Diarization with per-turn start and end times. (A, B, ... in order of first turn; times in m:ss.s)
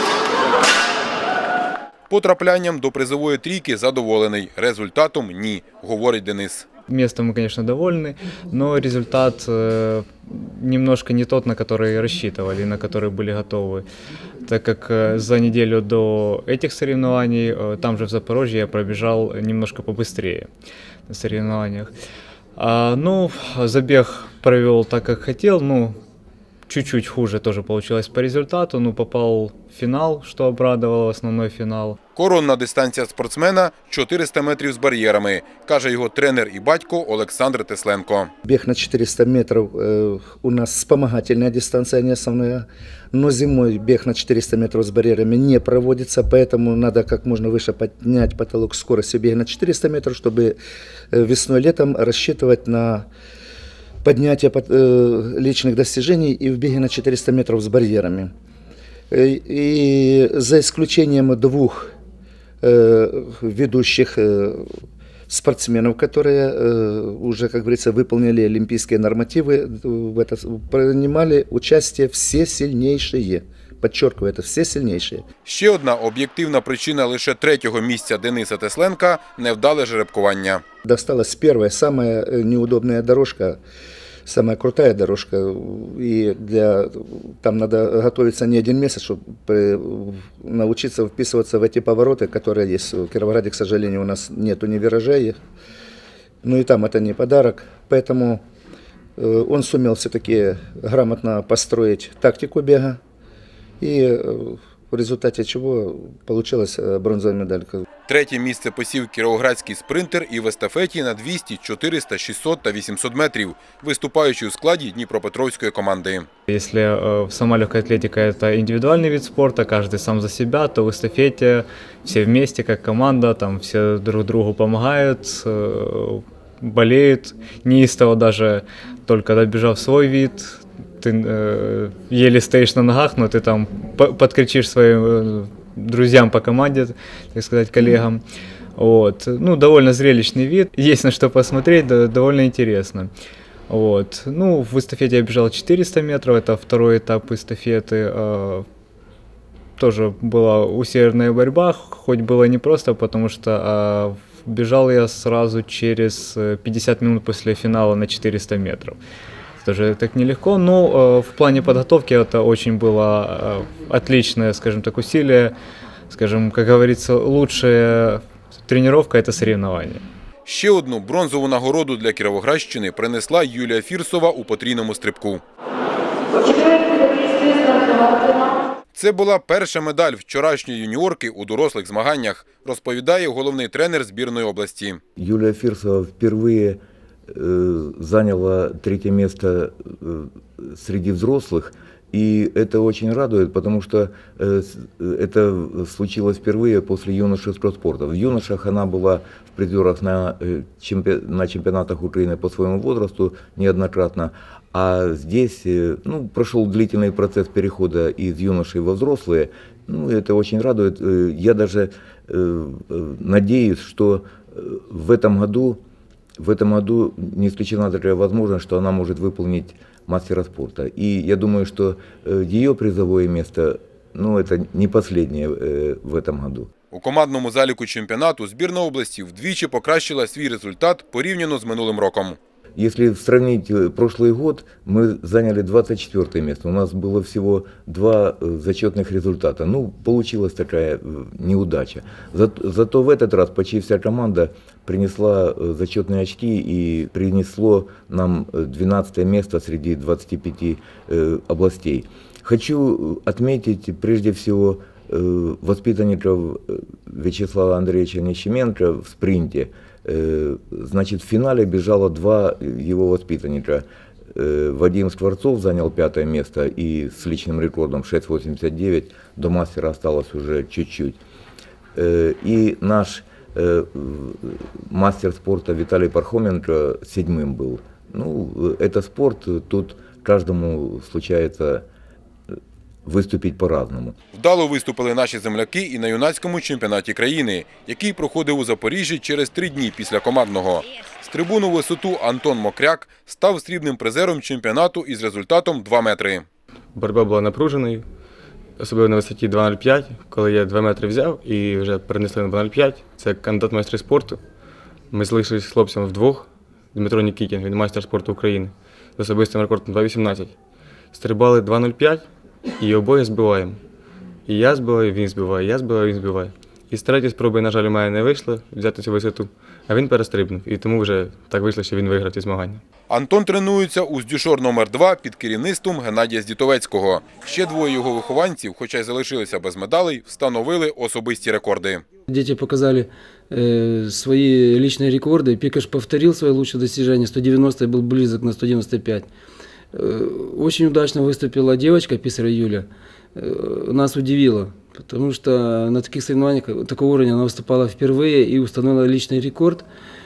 0:02.1-0:06.7 A
0:06.9-0:13.8 B
0:14.4-0:20.5 B
0:21.1-0:21.9 B
0:22.6-0:26.0 B
0:26.7-0:32.0 B
0:32.2-0:38.3 A
0:38.4-0:50.6 C
0:51.1-0:53.1 C
0:54.0-0:58.3 C
0:59.1-1:01.9 C
1:02.6-1:04.7 C
1:05.3-1:15.2 C
1:15.4-1:20.6 A
1:20.8-1:23.6 C
1:24.3-1:35.4 C
1:36.4-1:38.4 C
1:39.2-1:43.0 C
1:43.8-1:47.8 C
1:48.1-1:56.3 A
1:56.5-2:18.2 B
2:18.8-2:23.1 B
2:23.7-2:28.6 B
2:29.8-2:39.0 B
2:39.6-2:45.5 B
2:46.1-2:50.0 B
2:50.5-2:55.4 A
2:59.0-3:05.0 A
3:05.2-3:35.8 D
3:36.4-3:46.7 D
3:46.9-3:52.4 A
3:52.8-4:31.2 D
4:32.0-4:41.9 D
4:43.0-4:44.2 D
4:44.3-4:56.4 A
4:56.9-4:58.1 E
4:58.8-5:04.5 E
5:05.1-5:10.6 E
5:11.1-5:13.8 E
5:14.4-5:22.8 E
5:23.1-5:32.0 A
5:32.3-5:39.3 F
5:39.9-5:49.9 F